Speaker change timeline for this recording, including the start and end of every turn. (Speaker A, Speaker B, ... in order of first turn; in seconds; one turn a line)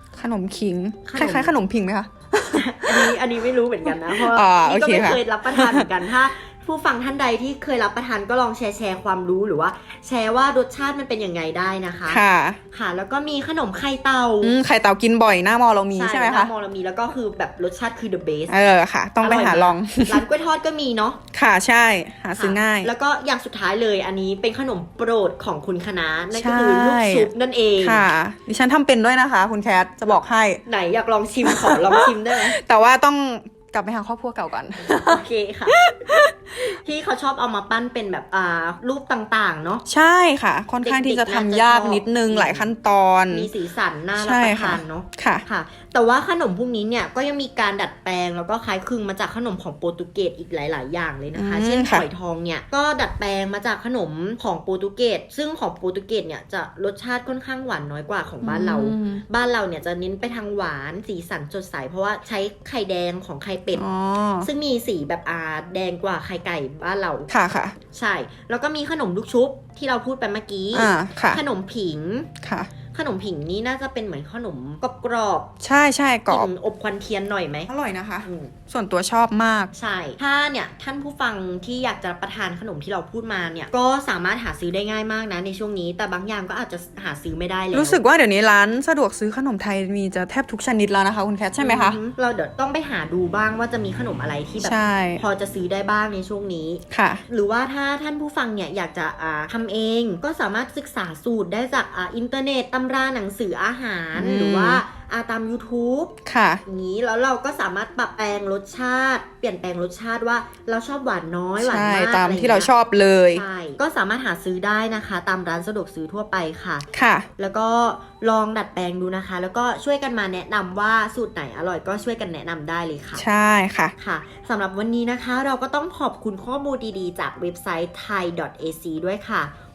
Speaker A: 0.2-3.2
Speaker B: 1.1-1.5
Speaker B: 2.5-12.2
Speaker A: 3.9-5.9
Speaker A: 12.1-12.6
Speaker B: 12.7-14.6
Speaker A: 14.4-16.5
Speaker B: 16.0-18.6
Speaker A: 18.5-20.2
Speaker B: 19.2-21.2
Speaker A: 21.3-22.9
Speaker B: 22.4-28.1
Speaker A: 26.3-27.3
Speaker A: 27.8-30.6
Speaker B: 30.7-32.6
Speaker A: 31.4-36.8
Speaker B: 34.9-35.8
Speaker B: 36.7-39.8
Speaker A: 39.9-43.5
Speaker B: 40.8-42.7
Speaker B: 43.3-63.9
Speaker A: 44.2-45.4
Speaker A: 51.4-52.1
Speaker A: 58.4-59.2
Speaker A: 63.8-64.5
Speaker B: 64.4-67.3
Speaker A: 67.3-67.8
Speaker B: 67.9-72.3
Speaker A: 70.7-71.4
Speaker A: 72.4-72.7
Speaker B: 72.9-75.5
Speaker A: 75.6-76.5
Speaker B: 76.3-77.7
Speaker A: 77.7-79.7
Speaker B: 78.2-78.5
Speaker B: 79.7-88.0
Speaker A: 87.7-92.0
Speaker B: 91.6-106.1
Speaker A: 94.6-95.2
Speaker A: 96.9-97.2
Speaker A: 104.2-104.8
Speaker A: 106.2-106.6
Speaker B: 106.7-112.7
Speaker A: 111.6-113.4
Speaker B: 113.3-116.9
Speaker A: 116.9-117.3
Speaker B: 117.4-123.2
Speaker A: 123.2-123.9
Speaker B: 124.0-129.5